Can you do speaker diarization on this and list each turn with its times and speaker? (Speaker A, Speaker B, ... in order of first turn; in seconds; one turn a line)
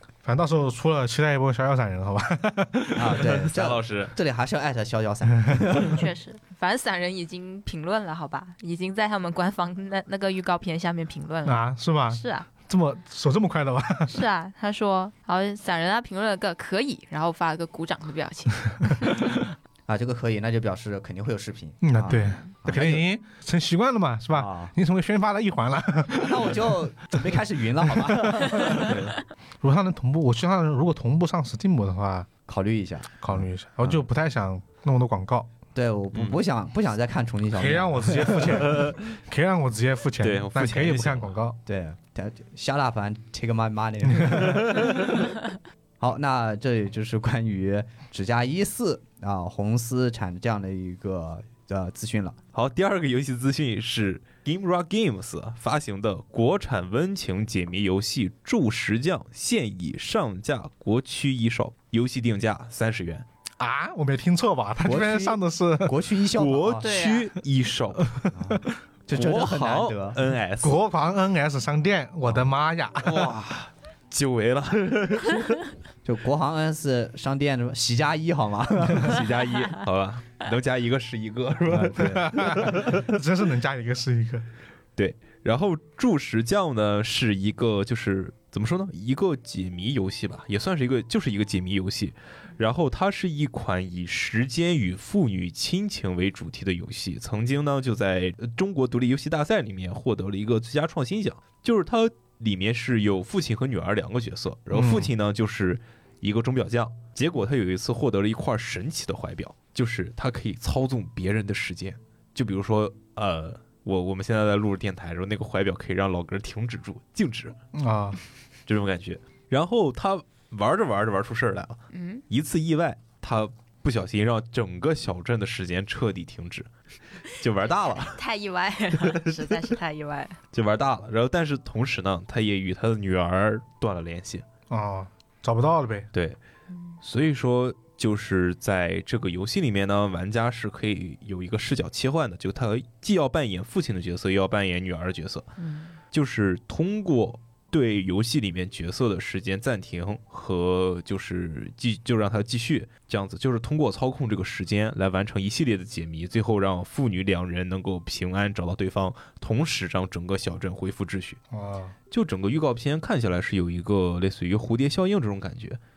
Speaker A: 0.2-3.2
Speaker B: 3.0-6.0
Speaker C: 3.2-4.1
Speaker D: 5.8-12.5
Speaker A: 11.4-14.2
Speaker D: 14.1-19.4
Speaker B: 19.9-23.0
Speaker A: 21.8-28.9
Speaker D: 22.2-22.5
Speaker B: 24.3-24.7
Speaker B: 26.1-29.1
Speaker A: 29.6-32.3
Speaker B: 32.5-34.0
Speaker A: 33.2-35.5
Speaker B: 35.8-38.8
Speaker C: 36.1-36.4
Speaker A: 37.5-41.6
Speaker C: 38.6-39.0
Speaker C: 40.2-41.3
Speaker B: 41.7-45.1
Speaker C: 44.4-45.1
Speaker B: 46.0-52.4
Speaker C: 52.5-63.2
Speaker A: 63.6-66.0
Speaker B: 64.8-66.9
Speaker C: 66.4-68.2
Speaker D: 66.8-67.3
Speaker A: 68.1-68.6
Speaker B: 68.3-70.2
Speaker C: 69.1-70.8
Speaker A: 70.6-73.3
Speaker C: 73.0-75.6
Speaker B: 76.0-79.2
Speaker C: 78.9-83.1
Speaker B: 81.7-82.5
Speaker A: 82.0-84.5
Speaker C: 85.0-117.6
Speaker A: 104.7-105.1
Speaker A: 117.7-118.2
Speaker C: 118.7-126.7
Speaker D: 121.9-122.2
Speaker C: 127.3-128.2
Speaker D: 128.2-130.4
Speaker C: 129.0-129.8
Speaker C: 130.5-134.4
Speaker A: 134.7-136.1
Speaker C: 136.1-136.4
Speaker C: 137.0-145.5
Speaker D: 145.6-145.9
Speaker C: 146.1-161.4
Speaker A: 161.5-161.9
Speaker C: 162.1-165.8